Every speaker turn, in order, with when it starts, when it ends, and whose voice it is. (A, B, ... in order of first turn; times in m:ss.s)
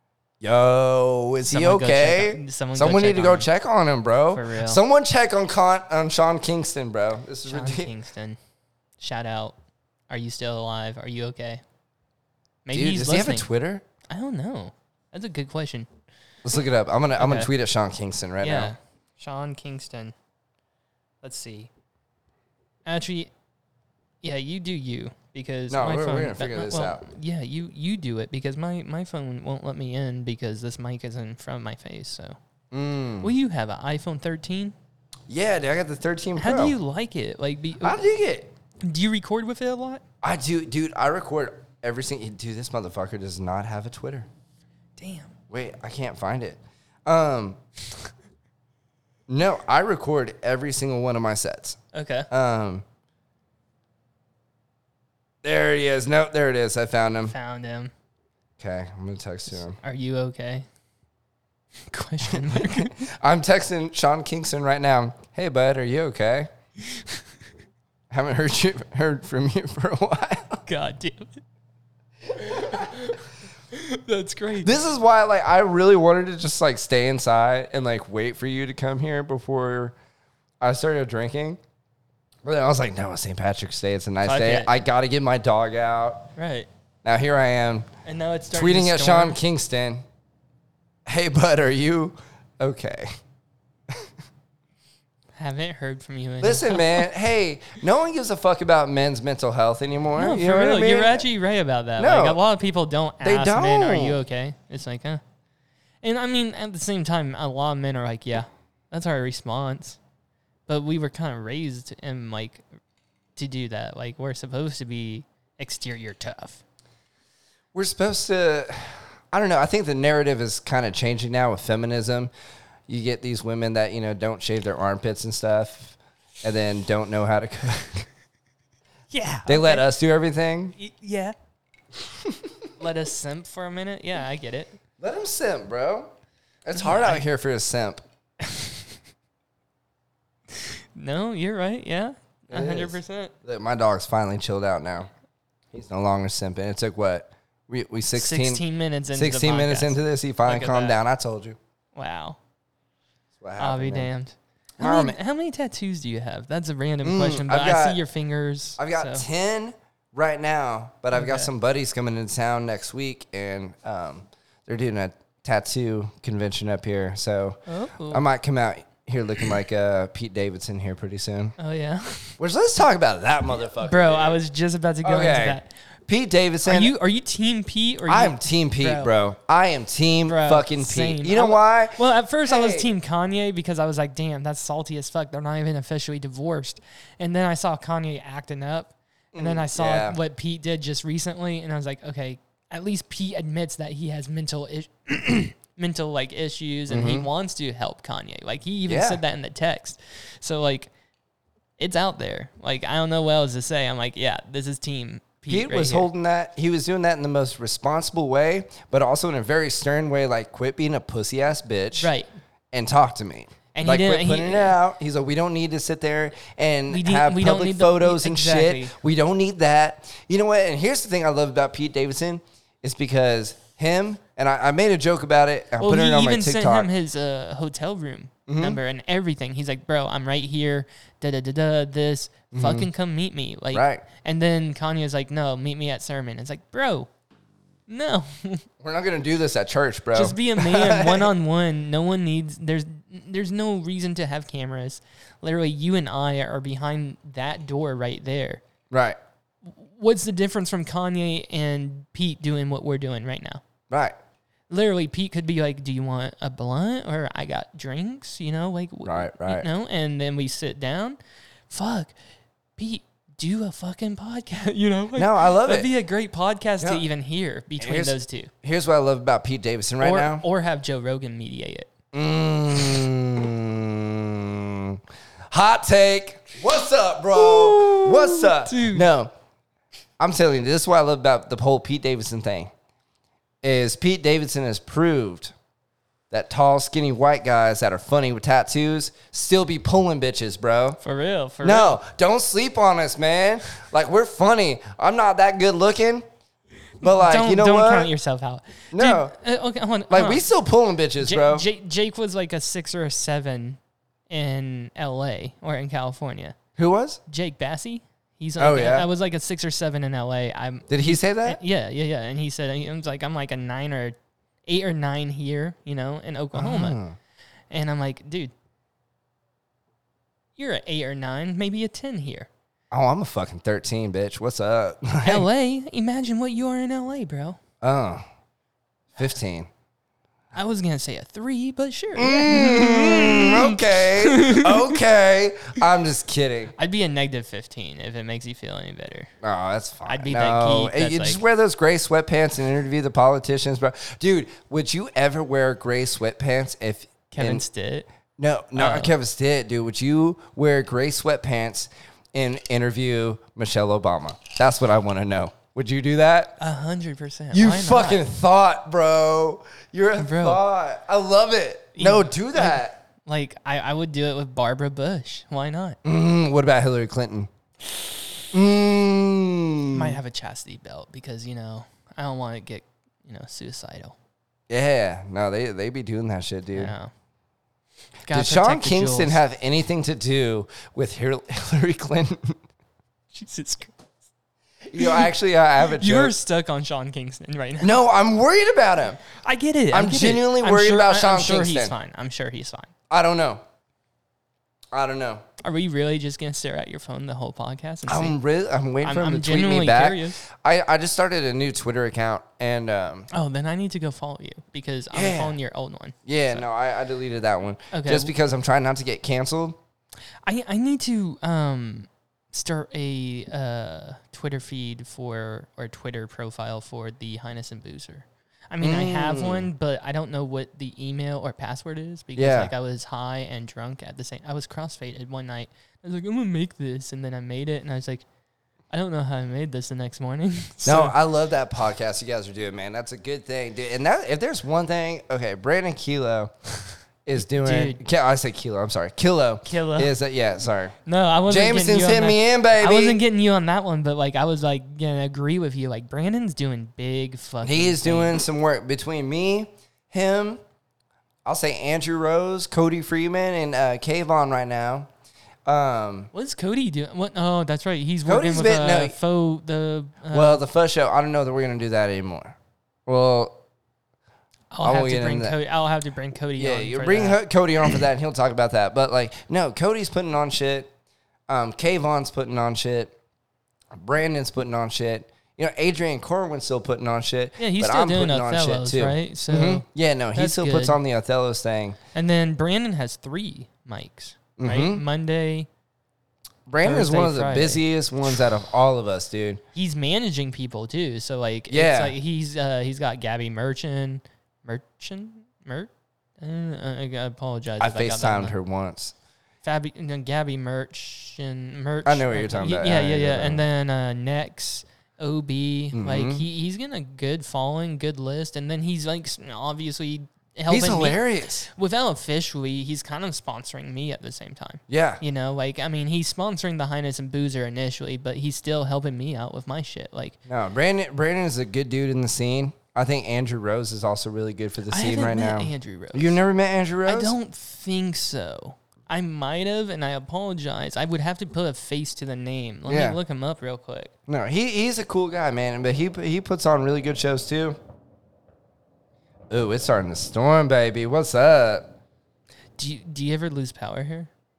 0:00.4-0:07.9 A
0:01.4-0:03.5 B
0:04.3-0:04.8 B
0:07.4-0:08.4 B
0:09.0-0:09.6 B
0:10.1-0:11.6 B
0:12.6-0:13.5 B
0:12.7-0:13.8 A
0:14.1-0:15.9 B
0:16.4-0:18.8 A
0:17.2-0:17.5 B
0:18.4-0:20.1 B
0:21.2-0:21.7 B
0:22.8-0:23.3 B
0:24.2-0:32.4 B
0:25.7-0:27.1 A
0:32.7-0:33.3 A
0:33.2-0:34.7 B
0:35.3-0:36.8 A
0:36.4-0:38.0 B
0:37.8-0:38.5 A
0:38.8-0:40.0 B
0:40.2-0:44.3 A
0:45.0-0:45.3 B
0:45.5-0:47.6 A
0:49.3-0:52.8 A
0:51.9-0:52.3 B
0:55.4-0:57.3 A
0:57.2-0:57.9 B
0:58.6-0:59.8 A
0:59.5-1:00.7 B
1:01.9-1:03.0 B
1:02.2-1:06.5 A
1:08.1-1:10.6 A
1:10.7-1:11.4 B
1:12.4-1:13.2 B
1:13.7-1:14.8 B
1:14.6-1:19.9 A
1:20.6-1:21.6 A
1:22.4-1:26.3 A
1:24.2-1:24.8 B
1:26.4-1:26.7 B
1:27.0-1:27.9 A
1:28.0-1:29.4 B
1:28.5-1:30.0 A
1:31.1-1:33.1 A
1:35.4-1:37.1 B
1:36.4-1:41.2 A
1:40.2-1:45.2 B
1:42.0-1:42.4 A
1:43.2-1:44.2 A
1:46.0-1:50.0 B
1:50.7-1:52.6 B
1:53.4-1:56.6 B
1:57.7-2:02.3 A
2:02.9-2:08.1 A
2:09.1-2:09.9 B
2:09.4-2:10.7 A
2:10.8-2:11.4 B
2:12.2-2:12.6 A
2:12.8-2:14.8 B
2:15.0-2:16.1 A
2:16.6-2:18.0 A
2:16.7-2:17.2 B
2:18.4-2:18.7 B
2:20.6-2:23.3 B
2:22.5-2:25.1 A
2:25.7-2:31.6 A
2:28.1-2:31.0 B
2:31.9-2:32.4 B
2:33.4-2:34.1 A
2:33.6-2:39.2 B
2:34.8-2:35.2 A
2:37.0-2:38.0 A
2:38.8-2:51.5 A
2:41.1-2:41.5 B
2:47.7-2:48.2 B
2:51.6-2:52.4 B
2:52.4-2:54.4 A
2:53.8-2:55.7 B
2:55.0-2:56.9 A
2:56.6-2:59.1 B
2:58.1-3:02.9 A
3:00.2-3:20.9 B
3:09.3-3:10.2 A
3:16.9-3:17.3 A
3:18.9-3:19.2 A
3:21.8-3:26.1 B
3:25.5-3:32.1 A
3:32.0-3:32.3 B
3:32.7-3:46.9 A
3:33.7-3:34.8 B
3:36.9-3:38.9 B
3:45.8-3:57.1 B
3:48.5-3:48.8 A
3:52.5-3:52.9 A
3:53.7-3:54.0 A
3:57.9-3:58.6 B
3:58.8-4:01.3 A
4:00.1-4:08.6 B
4:08.9-4:09.2 A
4:09.6-4:13.6 B
4:13.9-4:14.2 A
4:14.7-4:21.2 B
4:19.0-4:19.7 A
4:21.7-4:22.1 B
4:22.8-4:28.5 B
4:25.1-4:25.9 A
4:26.8-4:27.1 A
4:27.8-4:30.4 A
4:30.0-4:31.9 B
4:32.1-4:39.3 A
4:37.3-4:39.1 B
4:40.2-4:42.7 A
4:43.6-4:45.5 A
4:46.3-4:51.0 A
4:51.0-4:52.0 B
4:51.6-4:56.2 A
4:57.0-4:58.1 A
4:57.0-5:00.4 B
4:58.9-4:59.4 A
5:00.1-5:01.7 A
5:01.2-5:03.8 B
5:04.3-5:06.6 B
5:06.8-5:07.2 A
5:07.3-5:17.0 B
5:08.6-5:09.1 A
5:10.9-5:11.6 A
5:16.5-5:17.2 A
5:17.7-5:18.5 B
5:20.6-5:22.5 B
5:22.9-5:25.5 A
5:25.2-5:27.6 B
5:27.8-5:28.2 A
5:29.1-5:29.7 A
5:30.5-5:35.0 B
5:32.2-5:36.7 A
5:36.8-5:39.3 B
5:39.4-5:47.6 A
5:40.0-5:41.4 B
5:47.3-5:48.1 B
5:48.4-5:56.6 A
5:48.8-5:49.1 B
5:56.6-5:58.2 B
5:57.5-6:03.0 A
6:00.2-6:00.6 B
6:02.0-6:06.0 B
6:06.0-6:07.5 A
6:08.5-6:10.2 A
6:09.9-6:14.2 B
6:14.7-6:16.9 A
6:16.7-6:17.1 B
6:18.2-6:19.4 B
6:18.3-6:22.6 A
6:23.3-6:24.0 B
6:24.9-6:26.4 A
6:25.0-6:25.3 B
6:25.8-6:27.9 B
6:27.8-6:29.2 A
6:29.3-6:32.9 B
6:29.9-6:31.9 A
6:33.1-6:33.6 A
6:34.9-6:35.4 A
6:35.6-6:38.4 B
6:38.1-6:43.3 A
6:39.0-6:40.4 B
6:43.3-6:46.6 B
6:45.1-6:45.6 A
6:46.2-6:49.8 A
6:47.9-6:48.3 B
6:50.4-7:08.2 B
6:58.8-6:59.7 A
7:02.4-7:02.7 A
7:08.9-7:11.2 B
7:10.8-7:16.5 A
7:17.2-7:23.2 A
7:17.4-7:18.0 B
7:19.6-7:20.1 B
7:21.1-7:28.4 B
7:27.6-7:30.6 A
7:31.4-7:35.1 A
7:35.6-7:36.3 A
7:36.3-7:40.6 B
7:38.2-7:39.2 A
7:40.3-7:43.6 A
7:44.7-7:47.4 B
7:44.8-7:45.6 A
7:46.6-7:50.9 A
7:51.5-7:53.2 A
7:53.9-8:02.0 A
7:57.6-8:01.0 B
8:02.1-8:05.7 B
8:04.6-8:05.0 A
8:06.7-8:09.6 A
8:06.8-8:07.8 B
8:09.7-8:18.6 B
8:11.7-8:12.2 A
8:17.8-8:19.1 A
8:19.6-8:40.4 B
8:22.0-8:23.6 A
8:25.9-8:26.4 A
8:30.7-8:31.7 A
8:34.9-8:35.2 A
8:40.5-8:47.4 A
8:44.9-8:46.4 B
8:47.1-8:54.1 B
8:52.9-8:53.2 A
8:54.3-8:57.8 A
8:59.5-9:01.9 A
9:02.8-9:04.3 B